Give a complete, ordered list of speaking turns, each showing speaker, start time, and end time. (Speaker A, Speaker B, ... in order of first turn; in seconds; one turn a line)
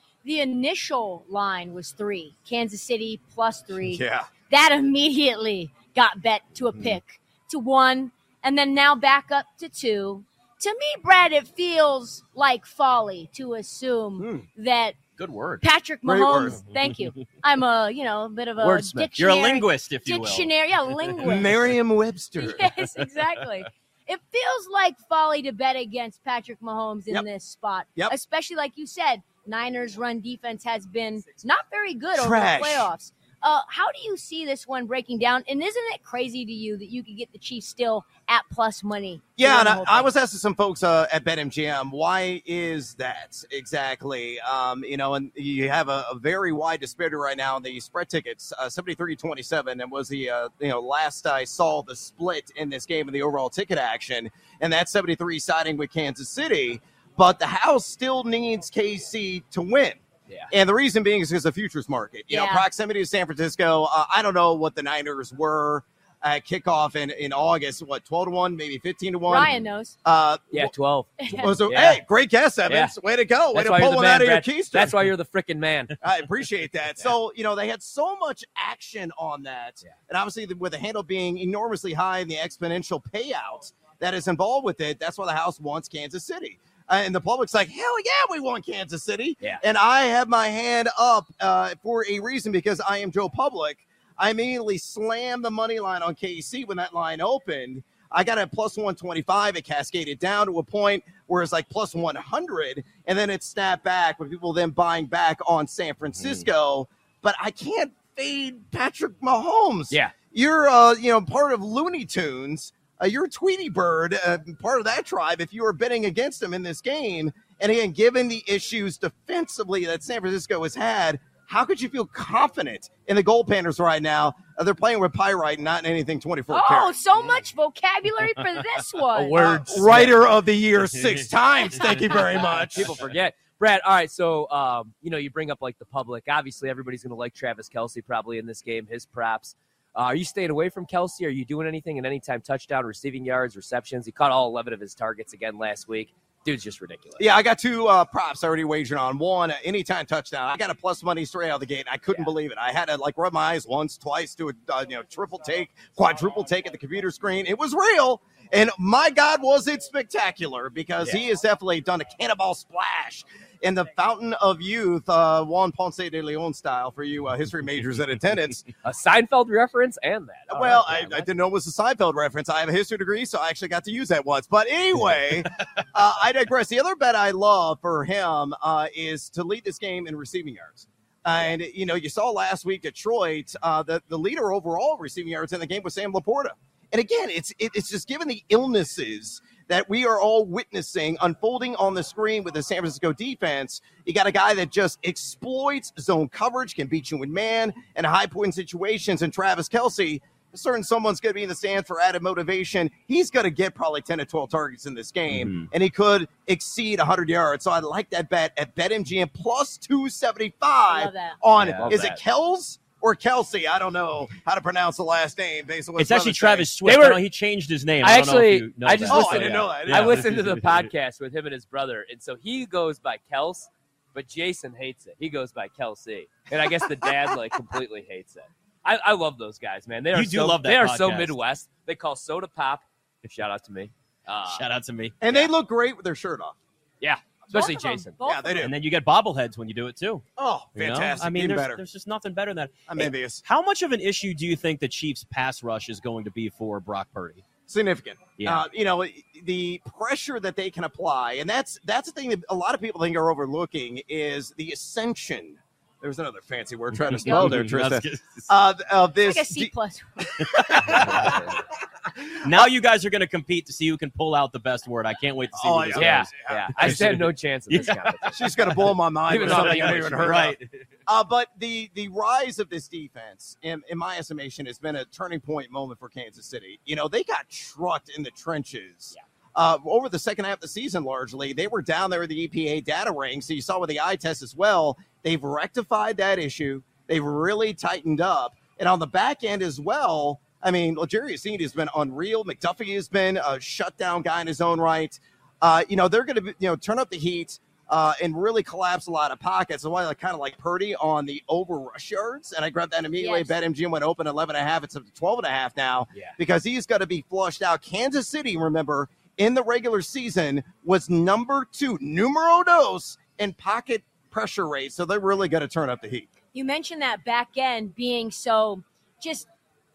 Speaker A: 0.2-15.0
Speaker B: 3.8-4.3
Speaker B: 14.2-14.5
Speaker C: 15.2-15.6
Speaker A: 15.6-21.7
Speaker B: 16.1-16.6
Speaker D: 18.6-19.1
Speaker C: 19.2-20.5
Speaker B: 21.2-22.7
Speaker A: 22.4-40.1
Speaker B: 32.1-32.9
Speaker B: 39.4-70.8
Speaker A: 62.3-62.7
Speaker A: 69.3-70.0
Speaker D: 70.5-72.0
Speaker A: 71.2-71.5
Speaker B: 71.3-75.0
Speaker D: 72.7-72.9
Speaker D: 73.5-76.0
Speaker B: 76.0-126.9
Speaker C: 106.2-106.5
Speaker A: 126.5-129.6
Speaker D: 129.2-130.2
Speaker B: 129.4-132.9
Speaker A: 131.8-132.2
Speaker D: 132.6-147.3
Speaker B: 147.2-168.7
Speaker D: 168.8-171.3
Speaker B: 170.5-216.7
Speaker C: 205.3-205.7
Speaker A: 210.9-211.4
Speaker C: 211.6-212.2
Speaker D: 211.8-212.1
Speaker C: 216.0-220.9
Speaker D: 216.8-217.2
Speaker D: 218.0-234.6
Speaker B: 219.1-220.3
Speaker C: 230.1-231.4
Speaker C: 234.5-235.2
Speaker B: 235.2-236.6
Speaker D: 237.0-238.1
Speaker A: 237.5-238.7
Speaker B: 238.2-238.7
Speaker C: 238.6-240.2
Speaker B: 240.4-241.8
Speaker C: 240.8-247.4
Speaker B: 242.9-243.4
Speaker B: 247.7-261.5
Speaker C: 248.4-248.6
Speaker C: 256.9-258.5
Speaker A: 257.3-257.5
Speaker A: 259.2-260.3
Speaker C: 260.4-261.4
Speaker D: 260.9-261.6
Speaker B: 262.1-262.7
Speaker C: 262.4-270.9
Speaker B: 265.6-267.1
Speaker D: 266.0-268.4
Speaker B: 268.3-270.6
Speaker D: 269.3-270.4
Speaker B: 271.1-316.3
Speaker A: 303.2-303.6
Speaker A: 316.5-319.5